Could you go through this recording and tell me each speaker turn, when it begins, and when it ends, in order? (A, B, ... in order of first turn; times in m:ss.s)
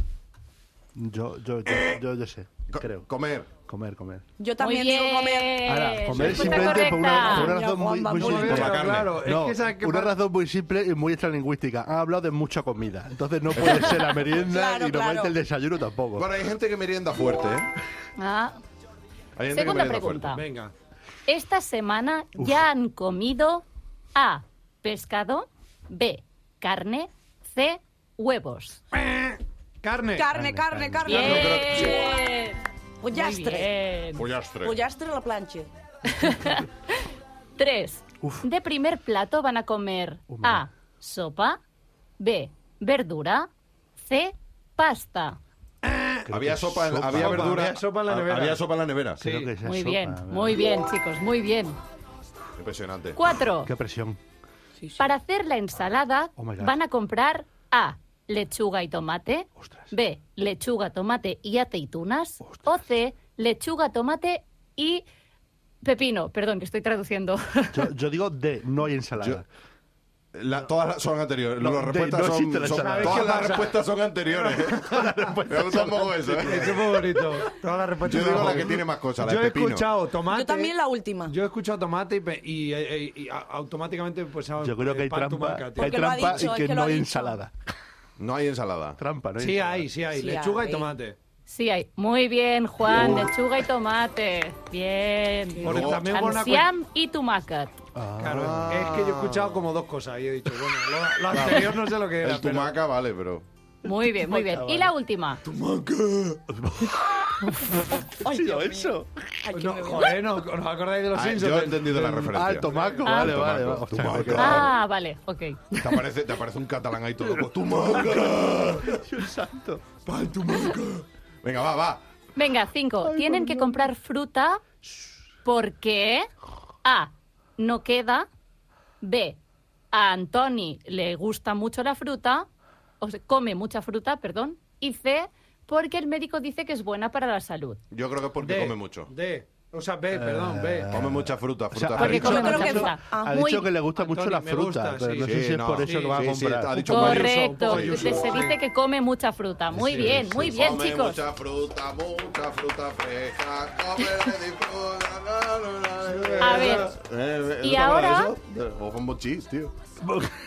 0:00.9-0:04.2 A
0:02.7-0:03.5 B
0:04.4-0:08.7 C
0:04.6-0:07.5 D
0:05.6-0:16.3 A
0:08.2-0:10.1 E
0:08.4-0:09.2 B
0:13.5-0:14.1 B
0:14.3-0:15.3 C
0:16.2-0:17.7 B
0:18.2-0:18.6 D
0:19.4-0:20.4 B
0:19.5-0:20.4 D
0:20.3-0:20.7 E
0:21.3-0:28.8 D
0:28.9-0:30.3 E
0:30.2-0:32.2 C
0:30.3-0:31.2 A
0:31.0-0:34.2 D
0:31.1-0:32.0 B
0:33.0-0:33.7 C
0:34.2-0:34.8 B
0:34.6-0:35.7 C
0:36.1-0:37.0 D
0:37.6-0:41.6 D
0:38.2-0:38.5 A
0:40.3-0:40.6 A
0:42.2-0:45.4 D
0:45.8-0:46.3 E
0:46.3-0:47.6 A
0:46.3-0:49.2 B
0:47.1-0:48.6 E
0:49.2-0:50.7 A
0:49.2-0:49.5 E
0:49.6-0:51.8 D
0:52.6-0:53.2 B
0:53.1-0:53.7 D
0:53.6-0:54.2 A
0:55.0-1:05.0 D
0:56.4-0:56.8 A
0:59.6-0:59.9 A
1:02.4-1:02.8 A
1:05.8-1:07.9 D
1:07.7-1:09.4 A
1:10.3-1:14.9 B
1:11.6-1:13.5 A
1:12.7-1:15.3 E
1:14.8-1:16.8 A
1:15.5-1:17.0 B
1:16.4-1:20.7 E
1:18.0-1:19.9 B
1:18.3-1:18.6 A
1:20.3-1:21.3 C
1:21.3-1:26.5 E
1:24.6-1:27.6 A
1:25.8-1:27.4 C
1:28.2-1:29.0 B
1:29.0-1:29.9 A
1:29.4-1:31.2 E
1:30.1-1:30.9 C
1:31.5-1:37.7 D
1:33.0-1:33.3 B
1:35.6-1:36.7 E
1:35.6-1:36.1 B
1:37.9-1:38.9 A
1:38.2-1:42.8 E
1:38.3-1:39.6 B
1:41.3-1:43.4 B
1:43.8-1:45.4 D
1:44.5-1:44.9 A
1:45.4-1:46.4 E
1:46.5-1:49.2 A
1:48.2-1:50.2 C
1:49.5-1:53.0 E
1:51.1-1:54.7 B
1:52.3-1:54.7 A
1:53.0-1:53.4 D
1:54.4-1:55.6 D
1:55.8-1:59.0 B
1:57.3-1:59.9 A
2:00.0-2:02.0 B
2:02.4-2:04.6 D
2:03.0-2:03.9 A
2:05.4-2:06.3 D
2:06.8-2:08.3 D
2:09.0-2:09.4 D
2:09.9-2:12.5 D
2:13.0-2:17.8 D
2:17.9-2:19.1 B
2:18.4-2:20.9 E
2:20.1-2:26.9 A
2:20.9-2:22.6 B
2:22.0-2:23.0 D
2:22.1-2:23.7 C
2:24.0-2:28.6 E
2:25.2-2:28.4 B
2:26.9-2:31.2 D
2:29.7-2:30.5 A
2:29.9-2:30.2 E
2:30.3-2:39.7 B
2:36.1-2:36.8 E
2:36.4-2:36.9 D
2:37.6-2:38.3 D